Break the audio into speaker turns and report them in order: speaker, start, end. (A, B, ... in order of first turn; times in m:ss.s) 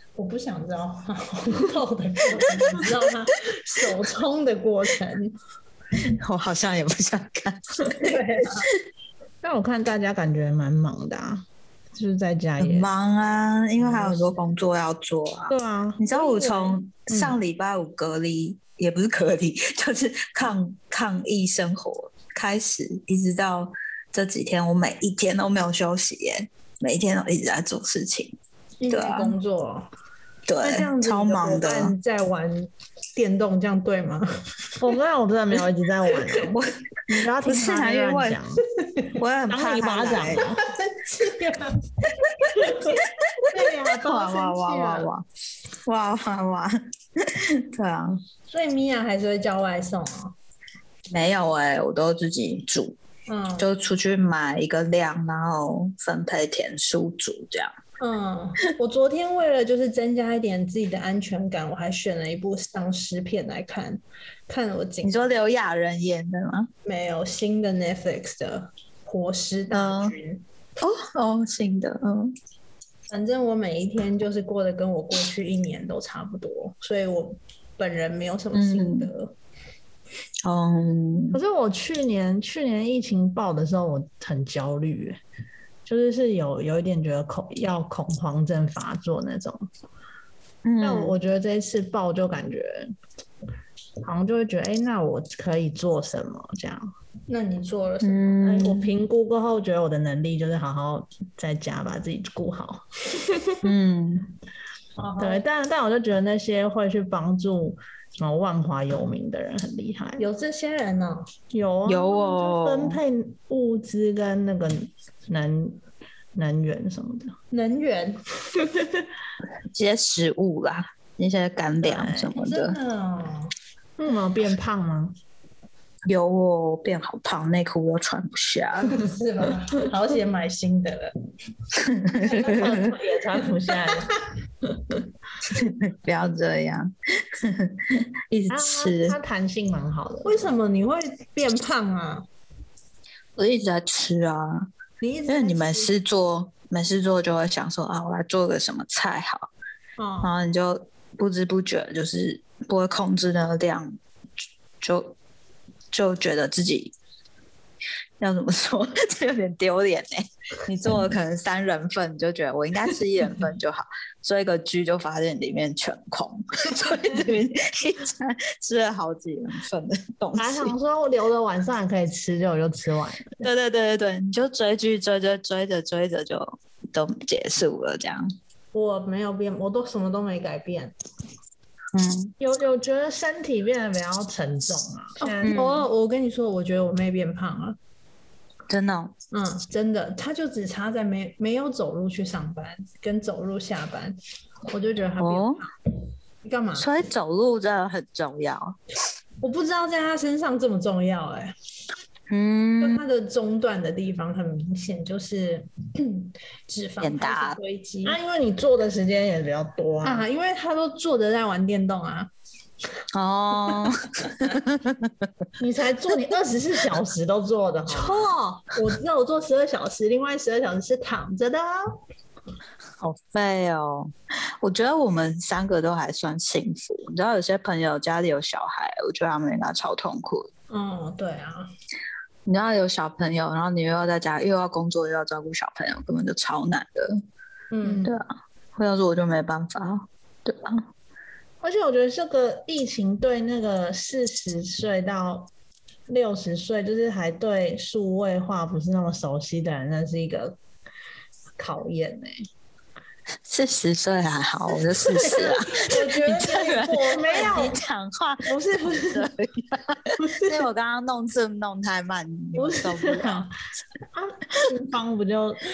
0:00.2-0:05.4 A
0:05.9-0:08.2 B
0:07.9-0:08.7 A
0:09.4-0:12.9 C
0:12.6-0:28.4 B
0:13.8-0:14.3 C
0:15.5-0:17.4 C
0:28.8-0:29.9 A
0:28.9-0:29.4 B
0:30.5-0:31.9 B
0:30.6-0:34.3 A
0:34.8-0:38.6 C
0:37.4-0:38.4 B
0:39.2-0:40.5 B
0:39.5-0:40.7 C
0:40.6-0:41.9 A
0:42.3-0:45.2 B
0:42.5-0:45.1 A
0:45.8-0:48.2 B
0:48.5-0:50.3 A
0:51.1-0:53.0 B
0:53.3-0:53.7 A
0:53.6-0:57.7 B
0:58.0-1:05.3 A
1:05.0-1:06.7 B
1:06.8-1:10.4 A
1:09.7-1:10.2 B
1:10.8-1:12.4 B
1:13.1-1:19.3 A
1:18.5-1:19.1 B
1:20.4-1:21.4 B
1:21.3-1:25.2 C
1:25.8-1:29.7 C
1:30.6-1:31.2 B
1:30.8-1:32.9 C
1:34.0-1:36.9 C
1:37.3-1:38.4 A
1:38.0-1:38.9 B
1:38.4-1:42.8 C
1:43.6-1:44.3 B
1:45.0-1:45.4 A
1:45.2-1:50.2 C
1:50.2-1:51.3 A
1:51.5-1:55.8 C
1:51.9-1:53.0 B
1:56.3-1:57.3 C
1:57.5-1:58.2 A
1:59.7-2:02.8 B
2:01.8-2:02.3 C
2:02.4-2:03.5 A
2:04.0-2:05.1 C
2:06.1-2:09.0 B
2:08.9-2:11.2 A
2:11.7-2:12.9 B
2:12.2-2:14.2 C
2:13.7-2:14.2 A
2:15.5-2:19.2 B
2:18.5-2:20.6 C
2:20.2-2:22.3 A
2:23.4-2:24.7 B
2:25.0-2:25.9 A
2:25.3-2:29.5 B
2:30.0-2:30.3 A
2:30.2-2:34.0 B
2:34.8-2:35.2 B
2:35.9-2:36.9 B
2:38.2-2:50.7 B
2:50.3-2:53.5 C
2:53.4-2:58.3 B
2:58.7-3:00.9 A
3:01.9-3:02.3 B
3:02.4-3:05.6 C
3:05.2-3:07.8 A
3:05.4-3:05.8 B
3:08.7-3:09.1 B
3:09.3-3:14.2 A
3:14.7-3:15.7 A
3:15.2-3:15.6 B
3:16.4-3:16.9 A
3:16.8-3:18.8 B
3:19.4-3:21.5 A
3:22.3-3:23.0 B
3:22.8-3:28.2 A
3:27.0-3:27.6 B
3:28.0-3:30.2 C
3:30.0-3:32.3 A
3:33.1-3:35.3 B
3:35.6-3:38.3 C
3:37.9-3:42.0 A
3:43.0-3:50.5 B
3:50.7-3:51.7 A
3:52.4-3:57.2 B
3:57.7-3:58.1 A
3:57.8-3:58.1 C
3:58.0-4:00.9 B
4:01.6-4:05.5 C
4:06.1-4:10.6 C
4:11.6-4:12.4 C
4:13.4-4:23.5 B
4:15.1-4:17.8 A
4:17.1-4:17.8 C
4:18.4-4:19.3 A
4:20.2-4:20.5 A
4:22.6-4:23.0 A
4:22.9-4:23.5 C
4:24.1-4:25.6 C